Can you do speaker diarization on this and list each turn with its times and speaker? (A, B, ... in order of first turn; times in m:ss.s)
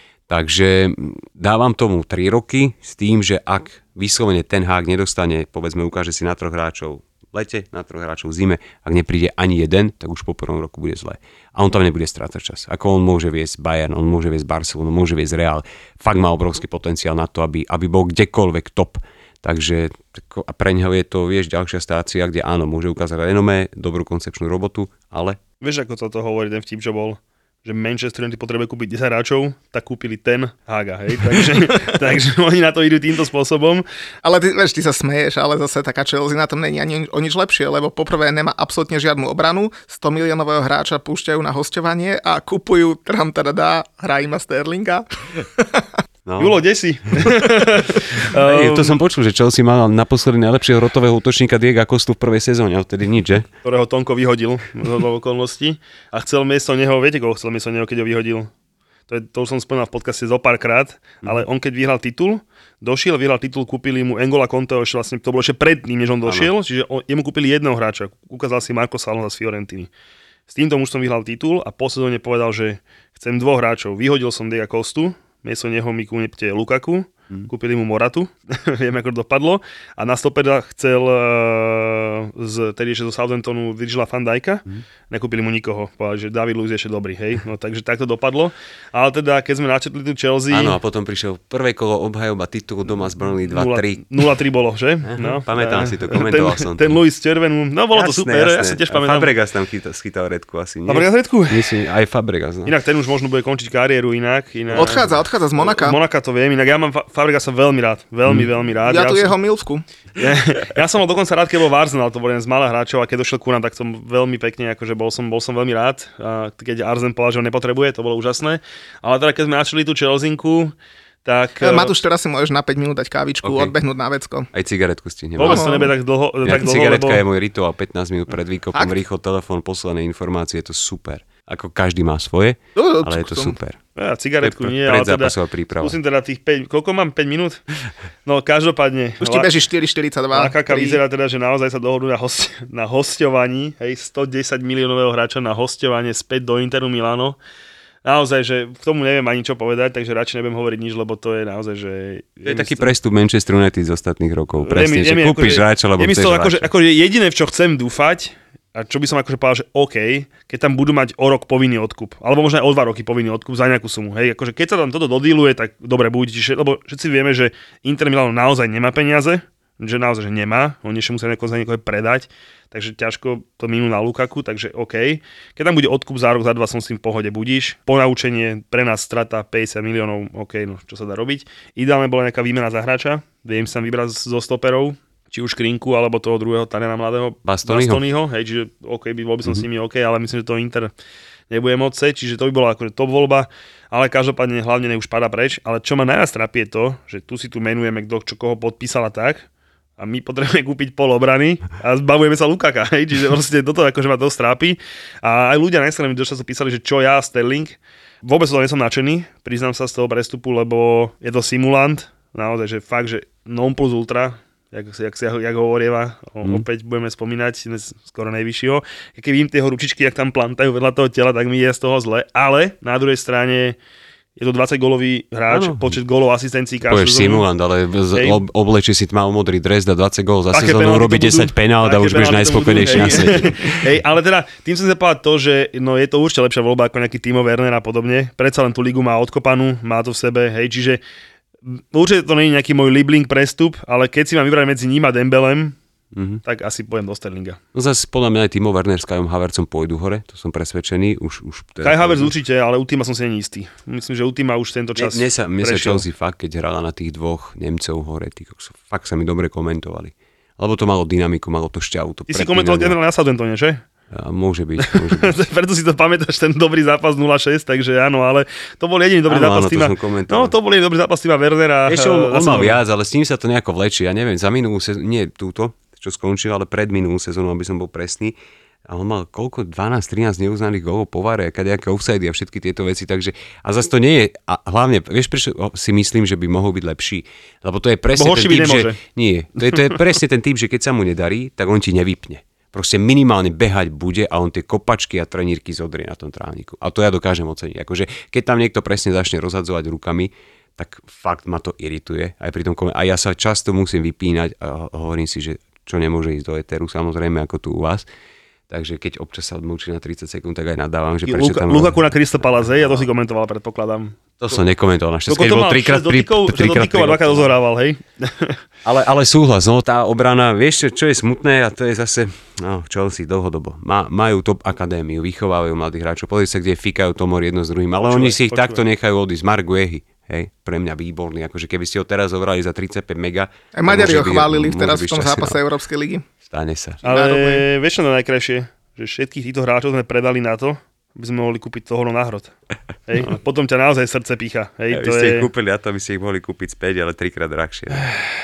0:00.3-0:25.4 A
0:25.6-0:33.8 B
0:34.2-0:45.0 C
0:45.6-0:45.8 C
0:46.2-0:46.6 A
0:46.4-0:49.0 B
0:48.3-0:53.4 A
0:53.6-0:58.5 B
0:59.1-1:09.9 B
1:06.2-1:06.5 A
1:10.5-1:30.8 B
1:30.5-1:34.2 A
1:33.5-1:39.3 B
1:35.0-1:37.0 A
1:37.9-1:42.8 A
1:40.9-1:41.7 B
1:42.6-1:49.4 B
1:44.7-1:45.0 A
1:44.7-1:46.0 C
1:48.8-1:49.8 C
1:50.2-2:00.7 B
2:01.2-2:01.9 B
2:01.6-2:04.5 C
2:03.4-2:03.7 A
2:04.5-2:05.8 A
2:05.4-2:07.2 B
2:05.4-2:05.8 C
2:06.4-2:13.8 A
2:12.7-2:13.6 C
2:14.0-2:17.6 B
2:14.4-2:16.0 A
2:18.2-2:19.5 B
2:19.2-2:21.0 C
2:20.3-2:27.4 B
2:28.0-2:32.9 B
2:32.4-2:36.7 A
2:34.6-3:10.9 B
3:07.4-3:08.0 A
3:11.5-3:19.4 B
3:20.0-3:43.8 B
3:44.4-3:47.5 B
3:45.5-3:46.0 A
3:46.8-3:53.9 A
3:48.1-3:48.4 B
3:50.5-4:01.0 B
4:01.9-4:05.8 B
4:06.1-4:06.4 A
4:06.4-4:07.6 B
4:07.7-4:12.3 A
4:11.8-4:16.0 B
4:15.0-4:23.0 A
4:22.3-4:23.8 B
4:24.1-4:25.4 A
4:24.8-4:32.8 B
4:29.3-4:30.5 A
4:31.8-4:38.3 A
4:38.9-5:08.0 A
4:48.1-4:49.0 B
5:08.7-5:13.1 A
5:11.2-5:14.2 B
5:14.4-5:17.5 A
5:15.3-5:18.6 B
5:18.8-5:35.6 A
5:28.0-5:28.8 B
5:33.7-5:36.2 C
5:36.5-5:37.0 A
5:37.0-5:37.6 C
5:37.0-5:42.5 B
5:43.1-5:45.5 B
5:44.9-5:48.1 A